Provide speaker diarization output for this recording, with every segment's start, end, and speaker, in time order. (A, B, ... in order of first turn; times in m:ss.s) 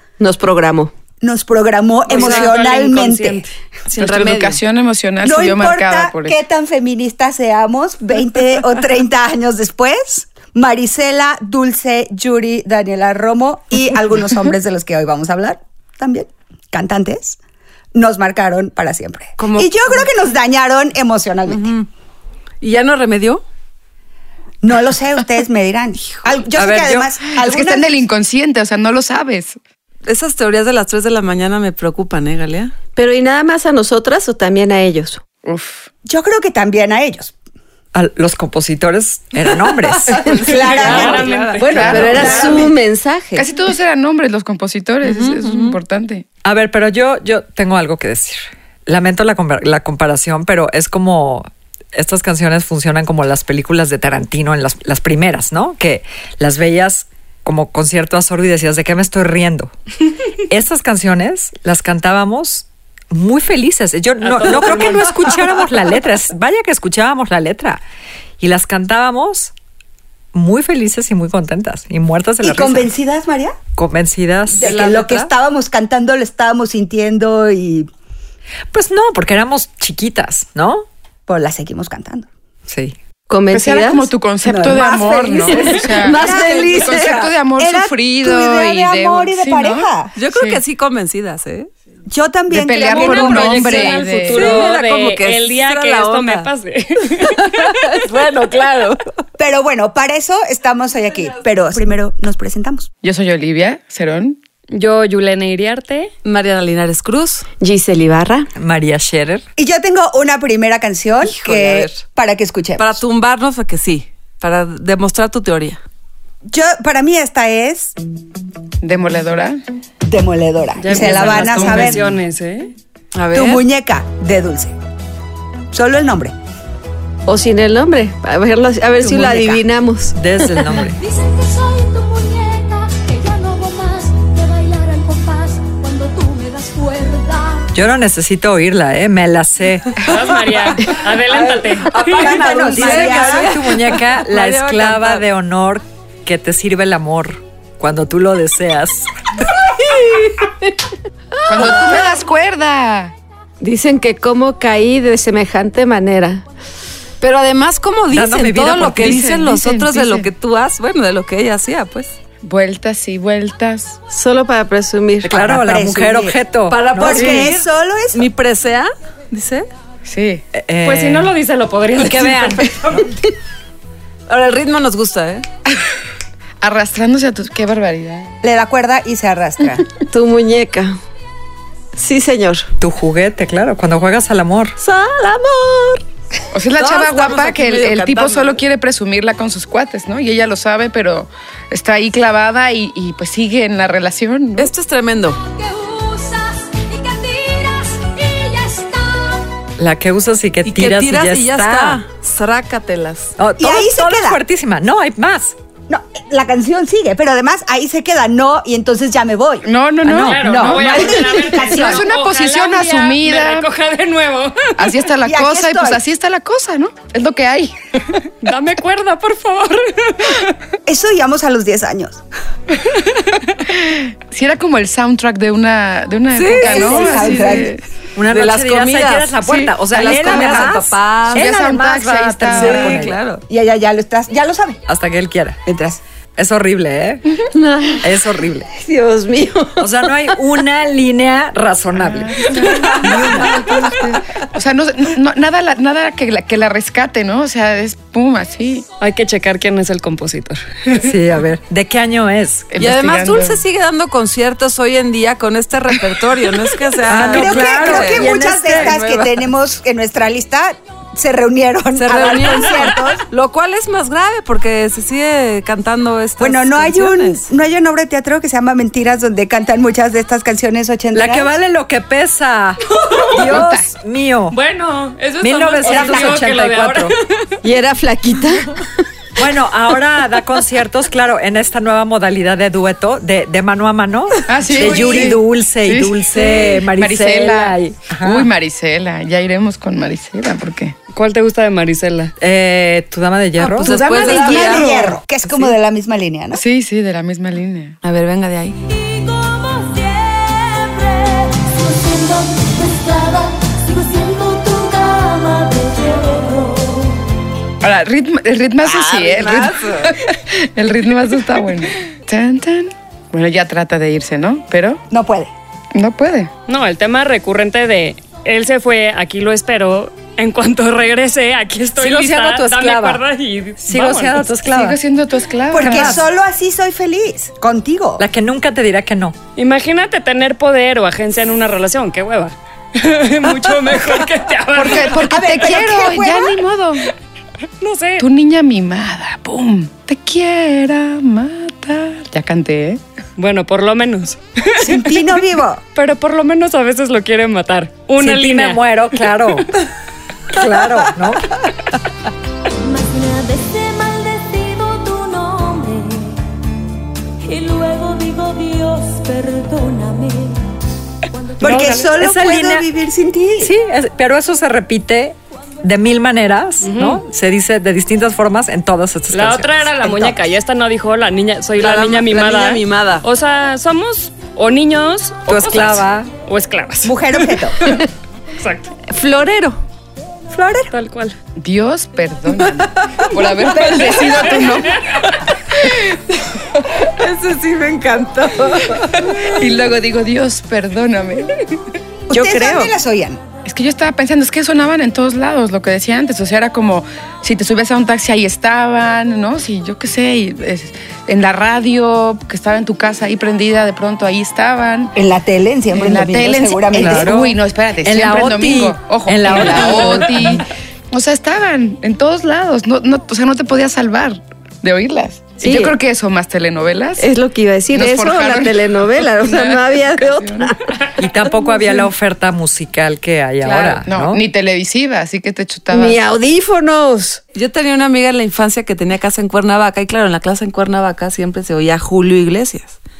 0:00.2-0:00.9 A
0:01.2-0:03.4 B
0:02.1-0:03.5 C
0:03.9-0:04.6 D
0:04.0-0:06.4 E
0:05.2-0:17.4 B
0:17.9-0:21.8 B
0:19.4-0:20.0 D
0:21.5-0:21.8 D
0:22.6-0:23.4 D
0:24.6-0:28.0 B
0:26.5-0:27.2 F
0:27.3-0:29.6 E
0:30.0-0:32.7 D
0:33.0-0:35.2 A
0:35.4-0:35.9 E
0:36.0-0:37.3 B
0:37.9-0:40.2 F
0:40.1-0:42.7 D
0:40.4-0:41.3 B
0:40.5-0:42.0 C
0:40.8-0:41.2 F
0:41.6-0:43.5 A
0:41.7-0:42.7 E
0:43.3-0:46.2 E
0:45.0-0:45.8 D
0:46.4-0:59.7 F
1:00.5-1:07.8 F
1:04.2-1:05.6 C
1:08.4-1:09.5 F
1:10.3-1:12.9 F
1:12.4-1:13.6 B
1:13.8-1:15.1 F
1:14.5-1:17.9 B
1:14.6-1:15.3 D
1:18.7-1:20.8 F
1:21.3-1:22.3 B
1:22.7-1:23.0 F
1:23.3-1:24.9 A
1:23.5-1:30.6 E
1:24.4-1:30.1 B
1:25.4-1:27.3 A
1:30.2-1:31.7 D
1:32.1-1:33.8 B
1:32.5-1:34.5 E
1:32.8-1:37.7 C
1:33.0-1:36.5 D
1:37.2-1:39.0 D
1:39.4-1:42.9 B
1:43.0-1:44.4 E
1:44.7-1:46.1 C
1:46.2-1:47.5 D
1:47.6-1:48.5 A
1:48.6-1:49.4 F
1:49.6-1:53.0 B
1:51.2-1:52.0 D
1:52.8-1:55.8 D
1:56.5-1:57.9 B
1:58.8-1:59.6 E
2:00.0-2:02.0 B
2:00.8-2:02.7 C
2:01.0-2:02.0 E
2:03.1-2:03.6 D
2:03.3-2:04.7 B
2:05.7-2:06.3 B
2:07.2-2:10.6 A
2:09.0-2:09.6 B
2:10.2-2:11.0 F
2:11.0-2:17.7 G
2:17.7-2:20.1 F
2:20.0-2:22.4 C
2:21.9-2:23.6 B
2:22.1-2:29.1 F
2:22.2-2:25.2 D
2:29.8-2:30.5 D
2:31.4-2:33.1 E
2:31.5-2:31.9 D
2:31.5-2:32.0 A
2:33.6-2:36.4 A
2:37.2-2:42.1 D
2:38.1-2:39.2 F
2:38.8-2:40.3 E
2:42.4-2:44.0 E
2:44.1-2:45.5 A
2:45.2-2:47.4 F
2:45.3-2:46.4 B
2:46.7-2:49.7 D
2:46.9-2:48.3 B
2:50.0-2:50.4 E
2:50.5-2:51.3 F
2:50.8-2:53.1 C
2:51.9-2:53.0 F
2:54.3-2:55.4 D
2:56.6-2:58.3 E
2:58.4-2:59.8 B
3:00.1-3:01.0 A
3:01.9-3:02.7 A
3:02.8-3:04.8 F
3:04.8-3:06.0 A
3:06.5-3:14.7 E
3:06.8-3:08.6 D
3:14.6-3:15.4 D
3:15.4-3:19.4 G
3:19.8-3:22.0 F
3:20.6-3:23.3 D
3:23.4-3:25.5 F
3:23.6-3:24.4 B
3:25.9-3:29.7 B
3:29.6-3:33.7 E
3:30.0-3:30.8 F
3:30.2-3:32.1 B
3:30.3-3:35.0 C
3:34.8-3:37.7 E
3:35.2-3:36.0 B
3:38.4-3:40.4 C
3:40.8-3:42.2 B
3:43.7-3:47.8 E
3:46.3-3:47.6 D
3:46.5-3:47.7 B
3:48.2-3:53.2 F
3:48.3-3:51.5 D
3:49.4-3:49.7 E
3:50.0-3:50.8 B
3:51.3-3:53.0 E
3:52.5-3:53.4 D
3:53.5-3:54.8 B
3:54.9-3:55.6 F
3:55.6-3:56.0 B
3:56.4-3:57.2 F
3:57.5-3:58.1 A
3:58.0-3:58.7 F
3:58.7-4:00.1 A
3:59.8-4:03.9 F
4:01.9-4:08.8 E
4:09.0-4:11.0 C
4:10.9-4:12.7 F
4:12.7-4:13.6 E
4:12.8-4:19.4 D
4:17.0-4:19.0 F
4:17.3-4:23.2 B
4:22.0-4:27.5 D
4:26.4-4:31.5 B
4:31.1-4:34.6 F
4:33.0-4:33.9 E
4:34.5-4:37.6 C
4:35.4-4:37.1 F
4:35.8-4:36.4 B
4:37.6-4:38.8 A
4:39.4-4:48.5 F
4:44.5-4:50.9 E
4:44.9-4:45.3 C
4:51.1-4:52.3 C
4:52.4-4:54.0 F
4:53.6-4:54.9 D
4:53.8-4:55.1 E
4:54.1-4:56.6 B
4:56.5-4:58.0 E
4:58.0-4:58.8 D
4:58.8-5:07.2 G
5:07.8-5:15.0 E
5:08.8-5:10.1 A
5:09.4-5:10.1 D
5:15.1-5:15.5 B
5:15.9-5:16.5 E
5:16.7-5:24.5 C
5:22.0-5:23.2 F
5:23.8-5:25.0 F
5:24.6-5:26.2 E
5:25.7-5:28.2 B
5:25.7-5:26.2 F
5:28.2-5:29.4 F
5:29.6-5:35.3 C
5:34.7-5:37.1 E
5:35.1-5:36.6 B
5:37.8-5:38.2 C
5:38.2-5:43.0 E
5:43.4-5:45.2 C
5:44.7-5:45.8 B
5:45.9-5:48.8 C
5:48.2-5:49.8 F
5:50.5-5:51.6 F
5:52.8-5:56.4 G
5:57.4-6:00.7 G
6:01.3-6:02.1 G
6:01.6-6:03.7 B
6:01.6-6:02.9 F
6:01.6-6:02.0 C
6:03.6-6:10.2 F
6:06.8-6:07.2 C
6:09.3-6:18.0 C
6:11.8-6:13.2 D
6:15.5-6:16.3 F
6:17.0-6:17.8 B
6:18.6-6:18.9 C
6:19.1-6:19.8 A
6:20.5-6:20.9 B
6:20.9-6:21.4 C
6:21.6-6:26.8 E
6:27.1-6:29.4 D
6:29.3-6:31.6 E
6:32.3-6:33.4 B
6:32.3-6:32.6 D
6:32.4-6:32.9 A
6:33.6-6:45.1 E
6:45.1-6:47.4 B
6:45.9-6:57.3 E
6:47.0-6:50.6 F
6:55.6-6:55.9 A
6:57.2-7:01.0 A
6:57.9-7:00.8 E
7:01.2-7:04.4 F
7:03.9-7:06.2 E
7:05.9-7:07.4 A
7:07.5-7:13.0 D